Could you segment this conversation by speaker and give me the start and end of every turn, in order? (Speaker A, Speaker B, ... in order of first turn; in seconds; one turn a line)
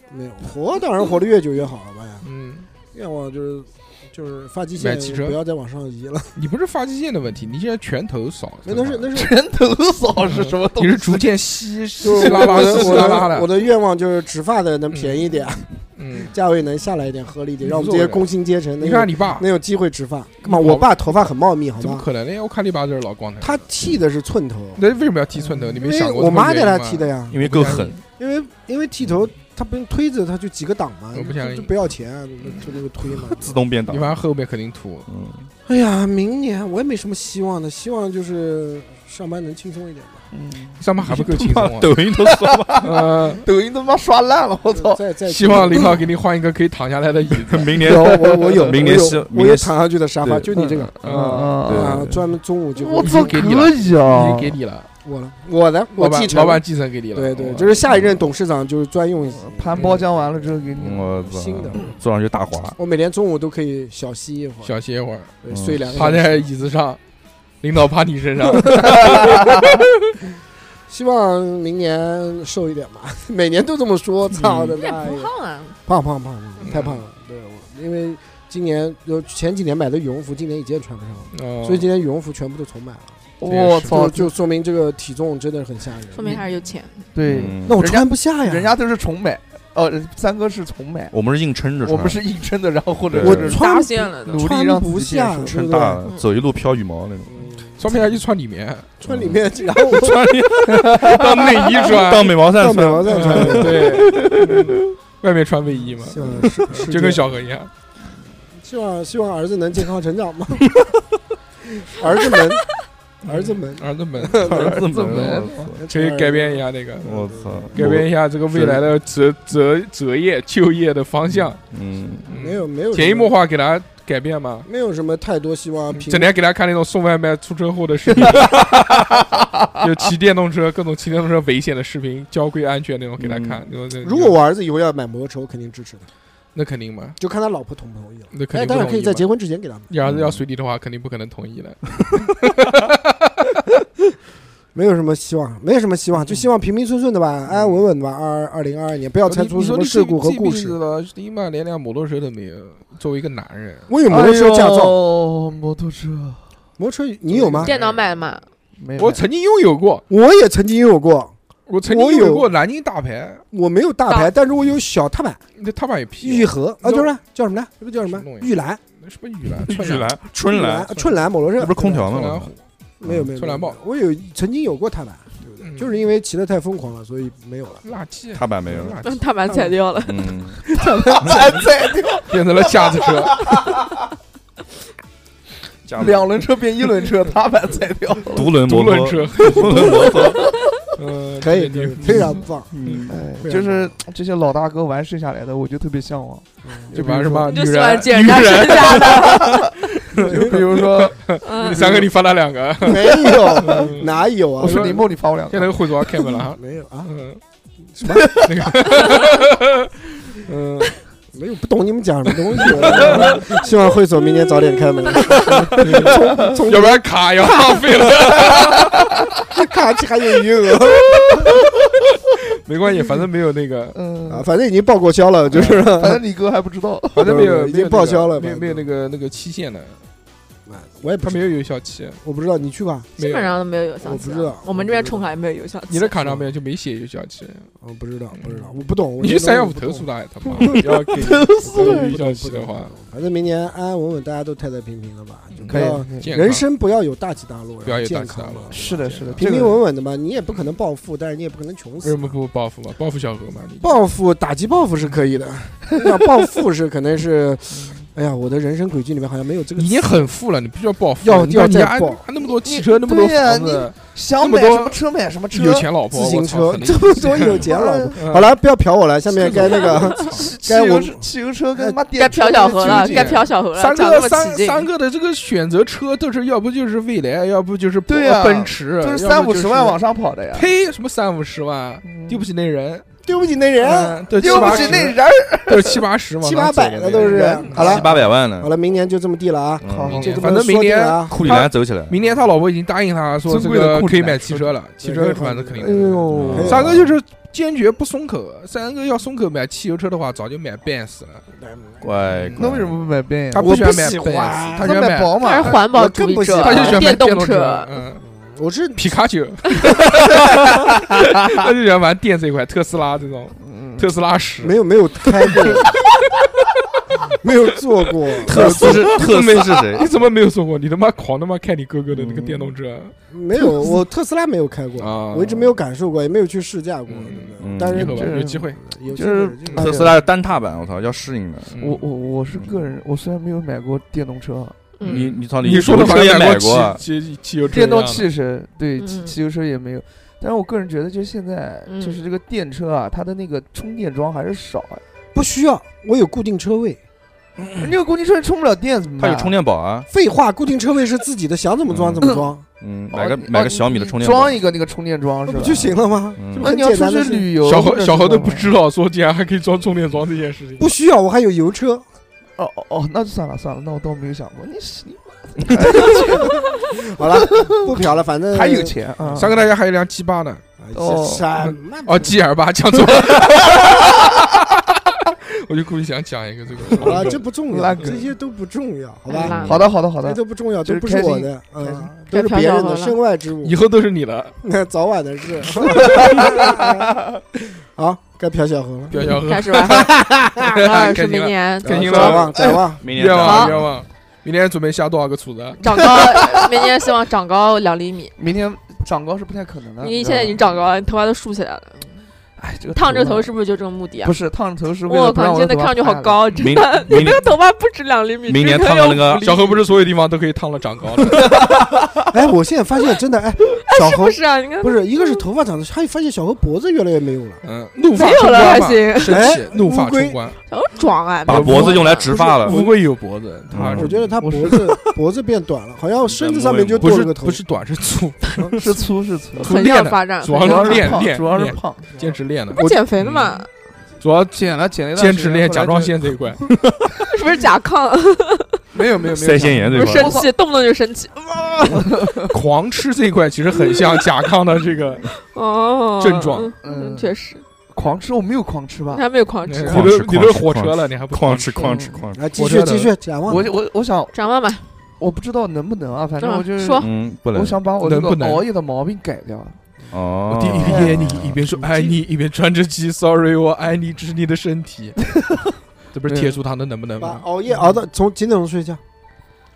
Speaker A: 0.1-2.2
Speaker B: 2.2-2.7
Speaker A: 2.9-6.4
Speaker B: 4.8-5.4
Speaker B: 6.4-9.1
Speaker A: 8.7-9.3
Speaker C: 9.1-11.3
Speaker B: 10.3-13.5
Speaker A: 12.0-15.7
Speaker C: 12.1-13.3
Speaker B: 14.9-15.4
Speaker B: 16.0-16.3
Speaker A: 16.2-22.1
Speaker B: 17.6-18.2
Speaker B: 18.8-19.5
Speaker B: 20.4-21.0
Speaker B: 21.8-23.6
Speaker A: 23.4-24.8
Speaker B: 24.8-28.0
Speaker A: 25.4-27.4
Speaker D: 27.3-28.0
Speaker A: 28.1-33.6
Speaker B: 31.1-31.7
Speaker D: 33.3-34.2
Speaker B: 33.9-35.1
Speaker D: 35.1-35.5
Speaker A: 35.7-40.3
Speaker C: 40.3-40.8
Speaker B: 40.8-42.0
Speaker D: 41.0-42.9
Speaker C: 42.2-45.9
Speaker B: 42.8-43.5
Speaker A: 44.7-46.0
Speaker B: 45.3-47.8
Speaker D: 47.5-50.5
Speaker C: 47.8-49.0
Speaker A: 47.8-53.4
Speaker C: 50.5-52.1
Speaker B: 51.0-51.7
Speaker D: 51.7-52.2
Speaker C: 52.8-54.5
Speaker B: 53.0-54.9
Speaker A: 55.0-60.5
Speaker B: 56.0-57.8
Speaker C: 59.3-61.2
Speaker B: 59.8-60.0
Speaker D: 60.8-62.8
Speaker A: 61.2-62.0
Speaker A: 62.8-64.7
Speaker B: 64.6-65.3
Speaker A: 65.4-66.5
Speaker D: 65.5-65.9
Speaker B: 65.9-67.0
Speaker B: 67.6-69.8
Speaker A: 68.5-69.6
Speaker A: 70.9-75.3
Speaker B: 74.3-74.8
Speaker E: 74.8-75.8
Speaker A: 75.9-83.2
Speaker B: 76.7-77.0
Speaker B: 81.3-81.9
Speaker C: 83.4-84.3
Speaker B: 83.5-84.0
Speaker A: 83.9-86.4
Speaker E: 86.1-87.1
Speaker C: 87.1-91.2
Speaker D: 87.2-87.8
Speaker A: 87.7-88.8
Speaker D: 91.1-92.2
Speaker C: 91.8-93.6
Speaker D: 93.1-93.5
Speaker A: 93.2-96.0
Speaker E: 93.5-94.5
Speaker C: 94.3-95.7
Speaker D: 95.5-97.5
Speaker A: 97.3-97.8
Speaker B: 97.8-98.9
Speaker A: 99.0-100.3
Speaker D: 99.1-101.2
Speaker B: 100.7-102.4
Speaker C: 100.9-101.6
Speaker D: 101.8-103.7
Speaker A: 102.5-104.0
Speaker B: 103.1-107.7
Speaker C: 103.8-104.7
Speaker A: 106.1-107.3
Speaker A: 108.6-110.8
Speaker A: 111.8-114.9
Speaker B: 113.2-114.6
Speaker D: 114.4-115.8
Speaker C: 114.8-115.7
Speaker A: 115.7-117.8
Speaker B: 115.9-117.2
Speaker D: 117.0-118.9
Speaker B: 117.8-121.6
Speaker D: 121.6-122.3
Speaker B: 122.3-124.7
Speaker A: 122.3-123.3
Speaker A: 124.7-126.3
Speaker B: 125.9-128.7
Speaker C: 128.1-129.7
Speaker B: 129.8-134.4
Speaker D: 133.2-133.7
Speaker A: 134.0-136.1
Speaker B: 136.5-137.2
Speaker A: 137.2-139.9
Speaker B: 138.3-139.3
Speaker B: 139.9-143.0
Speaker D: 140.0-140.4
Speaker A: 144.7-150.8
Speaker B: 149.3-153.9
Speaker A: 153.9-155.0
Speaker C: 154.1-156.4
Speaker A: 156.8-157.7
Speaker C: 157.4-158.0
Speaker E: 157.6-158.4
Speaker C: 158.8-159.2
Speaker B: 159.0-160.0
Speaker A: 160.1-161.3
Speaker B: 161.7-163.4
Speaker A: 161.8-162.5
Speaker A: 163.5-165.4
Speaker B: 165.6-167.1
Speaker A: 166.2-168.8
Speaker B: 168.1-170.2
Speaker D: 169.7-170.9
Speaker A: 170.5-172.1
Speaker D: 171.6-172.5
Speaker B: 172.1-172.6
Speaker A: 173.0-177.8
Speaker B: 173.3-173.8
Speaker B: 175.6-175.9
Speaker B: 177.8-179.2
Speaker D: 178.3-179.0
Speaker E: 179.0-180.4
Speaker D: 180.0-180.6
Speaker C: 180.8-183.9
Speaker A: 181.0-181.4
Speaker B: 182.3-183.4
Speaker D: 185.9-186.4
Speaker C: 186.0-188.6
Speaker D: 188.3-190.4
Speaker B: 188.7-190.4
Speaker C: 189.6-190.7
Speaker B: 190.9-193.1
Speaker A: 191.4-192.7
Speaker D: 192.0-193.3
Speaker C: 193.1-197.6
Speaker A: 193.4-194.0
Speaker A: 196.7-196.9
Speaker B: 196.9-207.4
Speaker E: 197.5-199.6
Speaker C: 199.2-202.0
Speaker A: 200.2-200.6
Speaker E: 201.4-202.0
Speaker A: 202.8-205.0
Speaker C: 203.6-203.9
Speaker C: 204.6-206.0
Speaker A: 206.6-207.1
Speaker A: 207.9-208.5
Speaker C: 208.2-208.4
Speaker B: 208.4-210.9
Speaker A: 211.3-218.5
Speaker B: 212.5-213.4
Speaker C: 212.9-213.4
Speaker B: 215.3-219.0
Speaker C: 215.8-216.6
Speaker A: 219.5-221.5
Speaker B: 222.6-224.0
Speaker C: 223.9-224.5
Speaker A: 224.3-226.2
Speaker B: 225.5-225.9
Speaker C: 225.5-227.4
Speaker B: 227.2-230.0
Speaker A: 227.2-228.8
Speaker A: 230.7-231.6
Speaker B: 231.2-232.2
Speaker A: 232.2-233.1
Speaker B: 233.2-233.5
Speaker E: 233.2-236.4
Speaker A: 234.0-235.3
Speaker B: 235.9-237.7
Speaker A: 237.8-240.9
Speaker B: 238.3-242.9
Speaker C: 241.1-242.2
Speaker A: 241.5-248.8
Speaker B: 245.6-246.7
Speaker C: 245.7-246.5
Speaker B: 247.8-249.5
Speaker C: 248.7-249.8
Speaker A: 249.4-252.3
Speaker B: 252.0-253.9
Speaker A: 253.8-260.3
Speaker C: 257.7-258.1
Speaker B: 259.8-265.0
Speaker A: 261.2-262.2
Speaker C: 262.6-265.9
Speaker B: 265.5-268.5
Speaker A: 266.1-271.2
Speaker C: 267.6-268.2
Speaker B: 269.3-270.4
Speaker C: 269.4-273.4
Speaker E: 272.1-274.9
Speaker B: 272.9-280.0
Speaker C: 278.1-280.7
Speaker B: 280.5-283.1
Speaker C: 282.0-282.4
Speaker A: 283.2-285.1
Speaker B: 283.8-288.0
Speaker C: 284.4-286.0
Speaker A: 286.4-291.4
Speaker C: 287.2-288.2
Speaker D: 287.7-288.7
Speaker D: 289.8-290.3
Speaker C: 289.9-290.5
Speaker B: 290.1-301.4
Speaker D: 291.3-292.2
Speaker C: 293.4-294.7
Speaker A: 295.0-297.1
Speaker C: 295.8-296.7
Speaker D: 296.3-297.1
Speaker A: 301.6-301.9
Speaker D: 302.0-303.0
Speaker B: 302.3-302.7
Speaker C: 302.6-303.8
Speaker B: 303.5-305.4
Speaker A: 303.5-304.9
Speaker C: 304.8-305.8
Speaker E: 305.4-307.9
Speaker A: 305.8-307.1
Speaker B: 306.6-308.2
Speaker A: 308.2-309.1
Speaker B: 308.9-314.8
Speaker C: 313.6-314.1
Speaker A: 314.6-316.0
Speaker A: 317.4-319.0
Speaker B: 318.4-323.1
Speaker D: 318.5-320.1
Speaker C: 318.8-319.3
Speaker D: 322.1-322.7
Speaker A: 323.3-330.1
Speaker B: 325.0-325.7
Speaker B: 327.1-328.8
Speaker D: 327.6-328.1
Speaker C: 328.0-330.1
Speaker D: 329.7-331.8
Speaker B: 331.7-332.0
Speaker C: 331.8-335.0
Speaker E: 335.0-335.3
Speaker D: 335.1-337.0
Speaker B: 335.1-338.2
Speaker C: 335.9-336.3
Speaker C: 337.7-345.0
Speaker E: 339.0-339.4
Speaker E: 341.9-342.2
Speaker A: 345.3-347.0
Speaker C: 347.8-349.6
Speaker D: 349.2-350.1
Speaker A: 350.1-352.6
Speaker D: 351.9-354.6
Speaker C: 353.1-356.0
Speaker A: 355.5-357.5
Speaker D: 356.4-356.7
Speaker C: 356.6-358.7
Speaker B: 357.6-360.9
Speaker A: 360.8-362.1
Speaker C: 362.6-367.0
Speaker A: 366.9-369.5
Speaker C: 367.6-368.0
Speaker C: 368.5-369.6
Speaker B: 369.4-370.6
Speaker A: 370.8-372.4
Speaker C: 370.9-371.5
Speaker B: 371.6-374.3
Speaker B: 375.3-377.4
Speaker A: 377.0-383.8
Speaker C: 377.0-378.2
Speaker E: 379.3-379.9
Speaker D: 379.4-379.9
Speaker C: 379.6-382.1
Speaker E: 382.3-383.2
Speaker B: 383.6-384.6
Speaker A: 384.6-387.1
Speaker C: 386.1-386.9
Speaker A: 387.8-389.3
Speaker B: 389.1-395.8
Speaker E: 389.3-392.6
Speaker A: 389.9-390.6
Speaker A: 391.8-393.1
Speaker C: 392.6-392.8
Speaker D: 393.0-394.0
Speaker E: 393.3-393.7
Speaker E: 395.8-398.3
Speaker C: 396.2-396.4
Speaker C: 398.4-400.6
Speaker E: 400.0-402.1
Speaker C: 402.6-403.5
Speaker E: 402.9-404.4
Speaker C: 404.2-406.6
Speaker E: 405.1-409.3
Speaker D: 406.5-407.5
Speaker D: 408.5-409.6
Speaker C: 408.9-409.8
Speaker B: 409.4-411.4
Speaker C: 411.4-412.2
Speaker A: 412.3-417.6
Speaker E: 413.9-415.4
Speaker B: 417.6-420.6
Speaker E: 418.1-419.5
Speaker A: 419.2-420.4
Speaker E: 420.7-422.4
Speaker D: 421.4-422.9
Speaker B: 421.5-424.8
Speaker D: 423.7-424.3
Speaker A: 423.8-427.6
Speaker C: 424.4-424.9
Speaker D: 426.3-427.1
Speaker B: 427.0-429.0
Speaker C: 428.8-429.9
Speaker E: 429.6-431.3
Speaker B: 429.6-433.5
Speaker C: 430.5-432.4
Speaker A: 432.7-433.0
Speaker E: 432.8-433.7
Speaker B: 434.2-436.7
Speaker C: 434.5-436.3
Speaker E: 437.3-438.8
Speaker C: 438.9-440.5
Speaker D: 439.4-440.4
Speaker E: 439.9-441.5
Speaker C: 441.9-442.5
Speaker B: 442.4-445.3
Speaker E: 445.4-447.6
Speaker B: 446.2-446.7
Speaker C: 446.8-447.3
Speaker C: 447.9-449.2
Speaker E: 449.1-450.1
Speaker B: 449.6-451.9
Speaker D: 449.8-452.5
Speaker C: 451.8-452.2
Speaker A: 452.4-453.7
Speaker B: 452.5-453.1
Speaker C: 453.5-454.4
Speaker E: 454.3-454.9
Speaker C: 455.2-459.8
Speaker E: 456.4-457.1
Speaker D: 457.0-457.8
Speaker B: 458.0-458.7
Speaker D: 460.1-461.6
Speaker B: 460.5-465.2
Speaker C: 460.8-461.2
Speaker C: 461.8-462.2
Speaker B: 466.1-467.4
Speaker C: 466.3-466.6
Speaker A: 467.2-469.0
Speaker C: 467.7-468.0